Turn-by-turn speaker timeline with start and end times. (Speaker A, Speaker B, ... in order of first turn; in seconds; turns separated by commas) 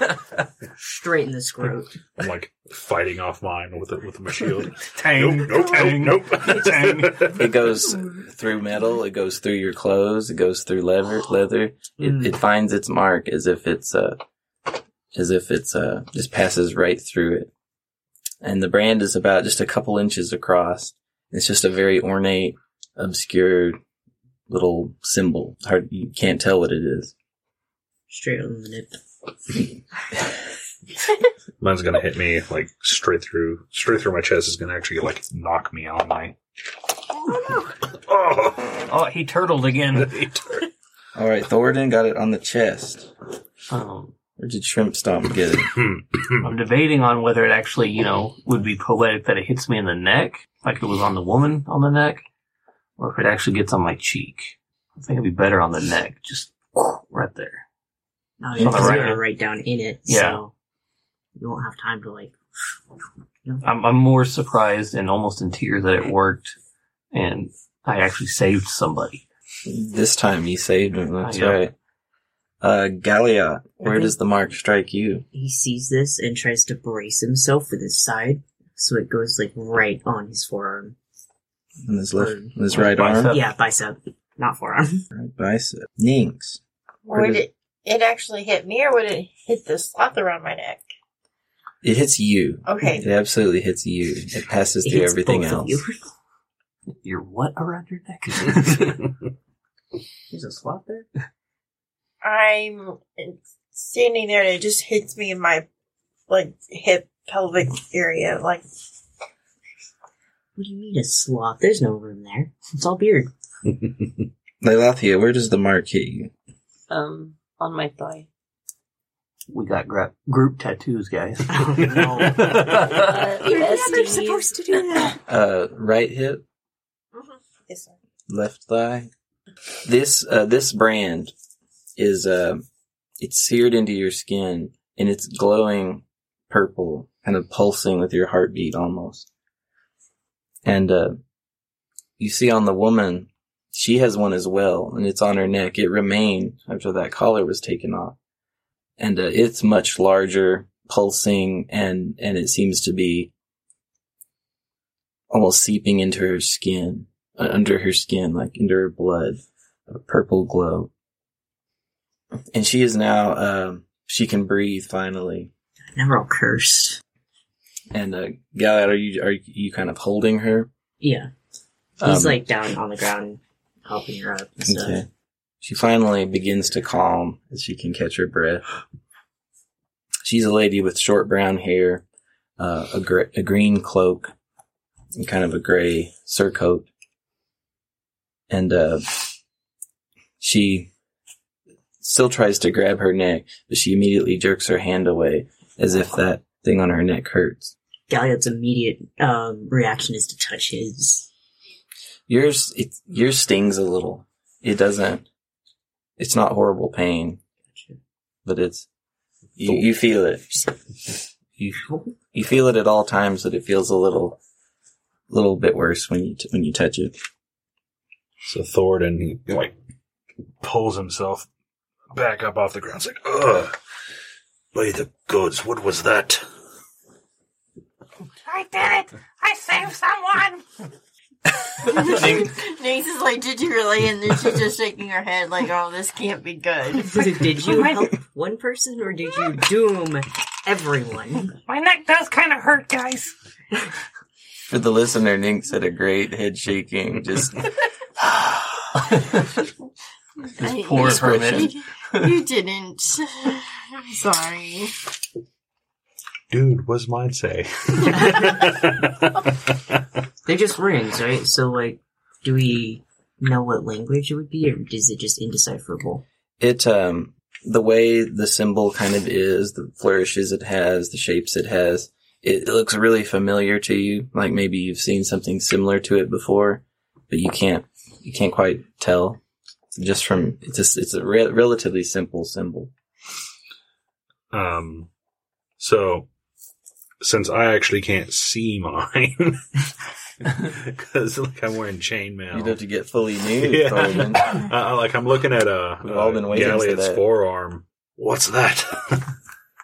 Speaker A: 0.8-2.0, Speaker B: 2.2-7.6, Speaker C: 4.9-7.3, Speaker D: 7.3-14.2, Speaker A: 12.0-12.3, Speaker D: 15.1-17.5, Speaker D: 18.4-23.8, Speaker D: 24.5-27.1, Speaker A: 28.1-29.0, Speaker B: 31.6-36.4, Speaker B: 37.9-38.8, Speaker C: 38.9-40.2, Speaker B: 40.0-40.7, Speaker D: 41.1-43.1, Speaker C: 43.7-44.1, Speaker D: 44.4-45.7, Speaker B: 45.8-46.5, Speaker C: 46.4-52.2, Speaker C: 53.0-57.6, Speaker A: 58.4-60.5, Speaker C: 58.5-59.2, Speaker C: 60.1-60.4, Speaker A: 61.4-62.4, Speaker C: 63.6-66.5, Speaker C: 67.1-69.2, Speaker D: 69.7-71.7, Speaker C: 71.2-71.6, Speaker D: 72.6-75.2, Speaker A: 73.8-74.2, Speaker A: 75.3-81.0, Speaker D: 81.8-83.3, Speaker A: 82.2-85.0, Speaker C: 82.8-83.5, Speaker D: 85.1-86.6, Speaker E: 87.1-90.9, Speaker D: 87.1-87.4, Speaker D: 91.8-95.8, Speaker E: 92.7-93.1, Speaker A: 94.8-96.1, Speaker C: 96.9-99.2, Speaker A: 100.3-101.1, Speaker E: 102.2-105.7, Speaker E: 106.3-108.7, Speaker A: 110.6-113.3, Speaker D: 114.6-116.3, Speaker F: 116.9-118.3, Speaker C: 119.5-123.2, Speaker A: 121.5-125.2, Speaker F: 122.8-125.1, Speaker D: 125.3-126.4, Speaker E: 127.2-128.0, Speaker D: 128.3-129.1, Speaker D: 129.8-131.3, Speaker D: 132.0-132.6, Speaker D: 133.2-139.3, Speaker D: 140.6-141.2, Speaker D: 142.2-148.2, Speaker D: 149.0-153.3, Speaker D: 155.3-160.9, Speaker D: 162.5-165.5, Speaker A: 165.9-167.0, Speaker D: 167.9-170.7, Speaker A: 171.0-171.3, Speaker D: 172.0-172.4, Speaker A: 172.0-175.0, Speaker D: 174.6-175.1, Speaker D: 175.6-178.6, Speaker D: 180.2-182.1, Speaker D: 182.6-184.3, Speaker D: 185.2-186.9, Speaker D: 188.5-189.1, Speaker D: 190.4-190.9, Speaker D: 192.0-197.7, Speaker A: 198.1-201.3, Speaker D: 202.3-205.3, Speaker D: 206.2-207.4, Speaker A: 207.7-208.0, Speaker D: 208.4-208.9, Speaker D: 209.6-210.6, Speaker D: 211.6-214.4, Speaker A: 211.8-212.1, Speaker D: 215.3-217.2, Speaker B: 218.5-219.8, Speaker B: 220.6-221.5, Speaker B: 222.1-223.8, Speaker B: 224.7-226.4, Speaker G: 228.4-230.7, Speaker E: 231.8-237.6, Speaker A: 237.1-241.6, Speaker G: 237.7-238.1, Speaker G: 241.7-243.3, Speaker D: 244.7-247.7, Speaker D: 248.2-248.8, Speaker C: 249.1-249.4, Speaker E: 250.6-254.9, Speaker C: 250.6-251.8, Speaker B: 256.5-259.6, Speaker A: 258.1-258.6, Speaker A: 260.4-266.2, Speaker D: 266.6-279.4, Speaker D: 279.9-282.9, Speaker B: 284.5-285.1, Speaker B: 285.8-286.3, Speaker B: 287.2-289.8, Speaker B: 290.4-292.8, Speaker D: 292.5-294.7, Speaker B: 293.6-299.3, Speaker D: 296.0-297.2